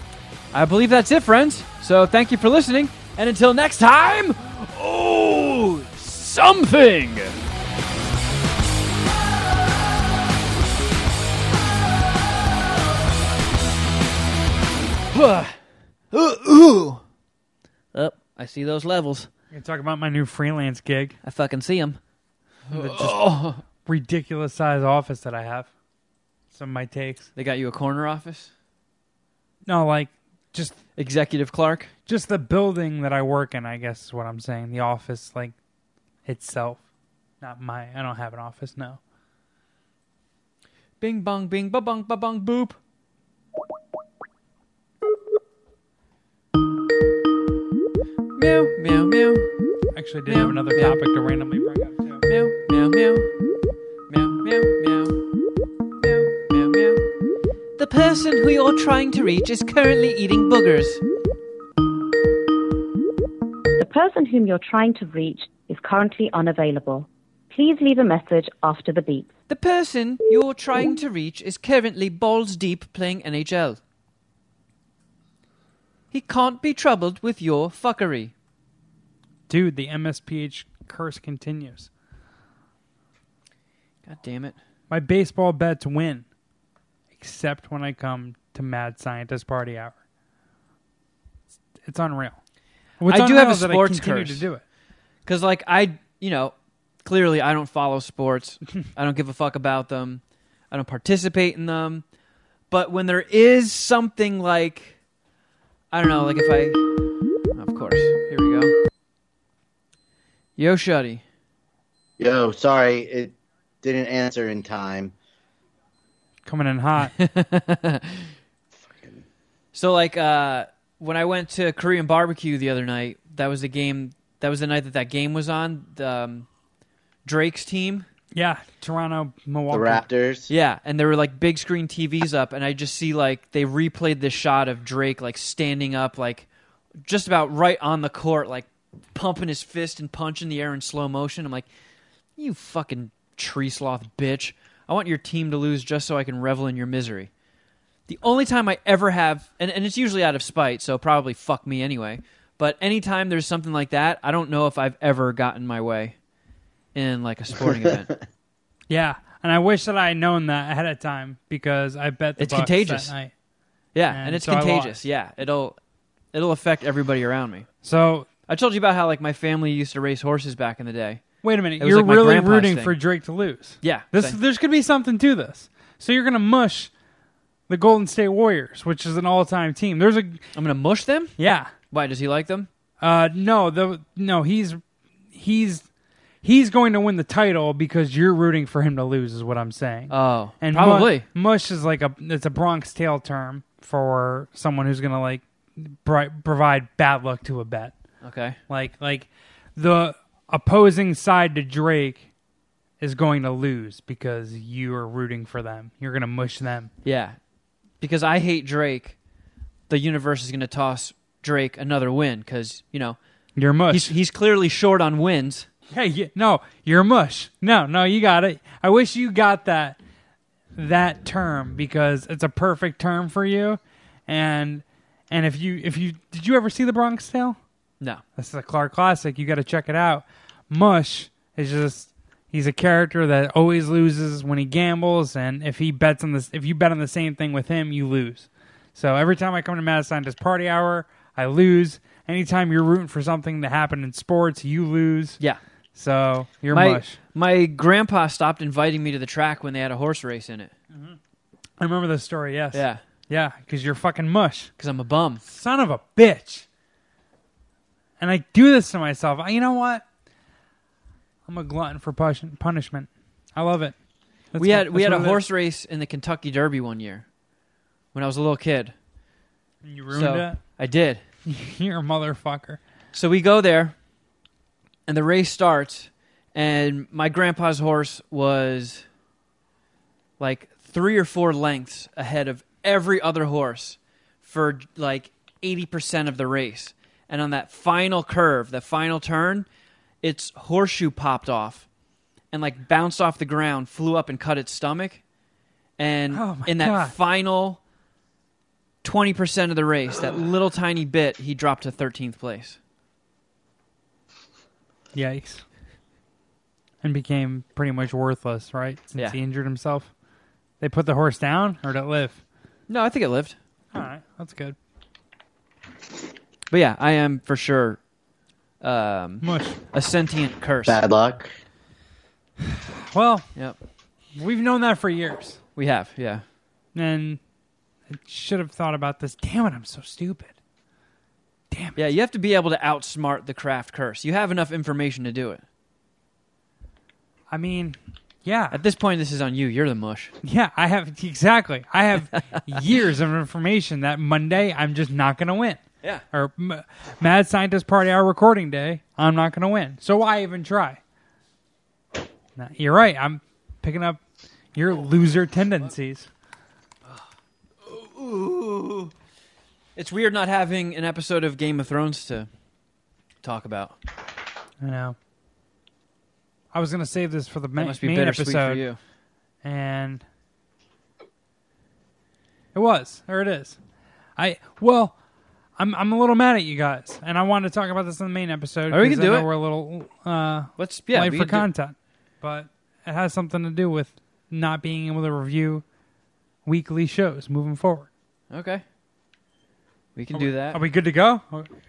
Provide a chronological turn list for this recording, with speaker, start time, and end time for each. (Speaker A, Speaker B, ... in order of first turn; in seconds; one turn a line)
Speaker A: 0.5-7.3
Speaker A: 15.1-15.6
Speaker A: 16.1-17.0
Speaker A: 17.9-19.3
Speaker B: 19.5-21.2
Speaker A: 21.2-22.0
Speaker A: 22.7-23.6
Speaker B: 22.7-23.2
Speaker B: 23.8-25.7
Speaker B: 26.5-27.2
Speaker A: 27.4-28.5
Speaker B: 29.6-30.8
Speaker A: 31.0-31.9
Speaker B: 32.1-35.5
Speaker B: 36.2-36.8
Speaker B: 37.4-39.0
Speaker A: 41.0-42.8
Speaker A: 48.4-49.5
Speaker B: 49.9-52.2
Speaker A: 50.3-51.0
Speaker A: 52.3-53.3
Speaker A: 54.1-55.1
Speaker A: 56.0-57.0
Speaker A: 57.8-61.0
Speaker C: 63.8-69.3
Speaker A: 69.5-73.8
Speaker A: 76.1-78.3
Speaker B: 79.5-81.9
Speaker A: 84.0-84.5
Speaker B: 84.9-86.2
Speaker B: 87.2-90.0
Speaker B: 91.8-92.4
Speaker B: 93.0-94.6
Speaker A: 93.1-94.4
Speaker A: 95.2-96.5
Speaker A: 97.0-102.0
Speaker A: 102.7-105.0
Speaker A: 105.9-106.8
Speaker A: 107.5-108.7
Speaker A: 110.6-111.2
Speaker D: 112.2-115.1
Speaker B: 116.4-117.1
Speaker A: 117.2-118.3
Speaker D: 118.8-119.2
Speaker A: 119.7-126.5
Speaker A: 127.2-128.0
Speaker B: 128.3-130.0
Speaker D: 129.7-130.5
Speaker A: 130.5-136.5
Speaker A: 137.0-141.7
Speaker A: 142.4-147.3
Speaker A: 148.1-156.1
Speaker A: 156.9-158.2
Speaker D: 157.7-158.0
Speaker B: 158.9-163.3
Speaker A: 162.4-163.1
Speaker A: 163.9-165.7
Speaker B: 164.1-165.0
Speaker A: 166.3-167.7
Speaker B: 167.8-168.3
Speaker A: 168.5-171.2
Speaker B: 171.4-176.9
Speaker A: 171.8-173.0
Speaker A: 173.8-174.4
Speaker B: 177.7-180.4
Speaker A: 180.5-181.3
Speaker B: 181.4-181.7
Speaker A: 181.9-182.7
Speaker B: 183.0-184.8
Speaker B: 185.3-185.8
Speaker B: 186.4-197.9
Speaker A: 190.1-191.2
Speaker A: 198.2-198.6
Speaker B: 198.7-202.2
Speaker B: 203.0-206.9
Speaker A: 207.0-207.3
Speaker A: 208.0-209.2
Speaker A: 209.9-213.2
Speaker B: 213.6-214.1
Speaker A: 213.9-215.7
Speaker B: 215.9-220.0
Speaker B: 220.8-227.6
Speaker B: 228.3-245.4
Speaker B: 245.9-247.1
Speaker A: 246.7-250.7
Speaker B: 251.8-254.7
Speaker A: 252.7-253.0
Speaker A: 254.8-255.4
Speaker B: 255.4-256.6
Speaker B: 258.2-260.0
Speaker B: 261.5-263.9
Speaker B: 264.5-265.4
Speaker A: 264.6-267.2
Speaker A: 268.1-268.9
Speaker B: 269.8-270.6
Speaker A: 270.1-271.2
Speaker B: 271.4-272.8
Speaker A: 273.1-273.9
Speaker A: 275.1-279.0
Speaker A: 280.4-289.6
Speaker A: 290.2-291.8
Speaker A: 292.5-295.2
Speaker A: 296.0-297.8
Speaker B: 296.3-297.1
Speaker A: 299.0-302.8
Speaker B: 305.1-305.6
Speaker B: 307.0-310.1
Speaker B: 310.8-312.4
Speaker A: 312.9-313.5
Speaker B: 313.9-314.8
Speaker A: 316.7-318.0
Speaker A: 318.8-321.0
Speaker B: 319.4-319.8
Speaker D: 320.9-321.6
Speaker B: 322.8-323.5
Speaker B: 324.4-325.6
Speaker A: 325.8-326.4
Speaker B: 326.9-327.4
Speaker B: 328.1-330.5
Speaker B: 331.7-332.0
Speaker A: 331.9-335.6
Speaker B: 337.5-338.8
Speaker A: 338.7-340.3
Speaker B: 340.4-345.8
Speaker B: 346.3-351.0
Speaker B: 352.6-354.2
Speaker B: 354.7-356.3
Speaker A: 357.8-359.1
Speaker A: 359.9-362.5
Speaker A: 363.4-364.0
Speaker B: 364.8-365.1
Speaker B: 366.7-368.8
Speaker A: 367.8-369.0
Speaker B: 369.6-370.2
Speaker B: 372.7-373.8
Speaker B: 374.4-375.1
Speaker B: 375.8-385.8
Speaker A: 378.9-379.5
Speaker A: 380.8-381.7
Speaker B: 386.6-388.1
Speaker A: 388.5-388.8
Speaker A: 390.1-390.8
Speaker B: 390.3-391.7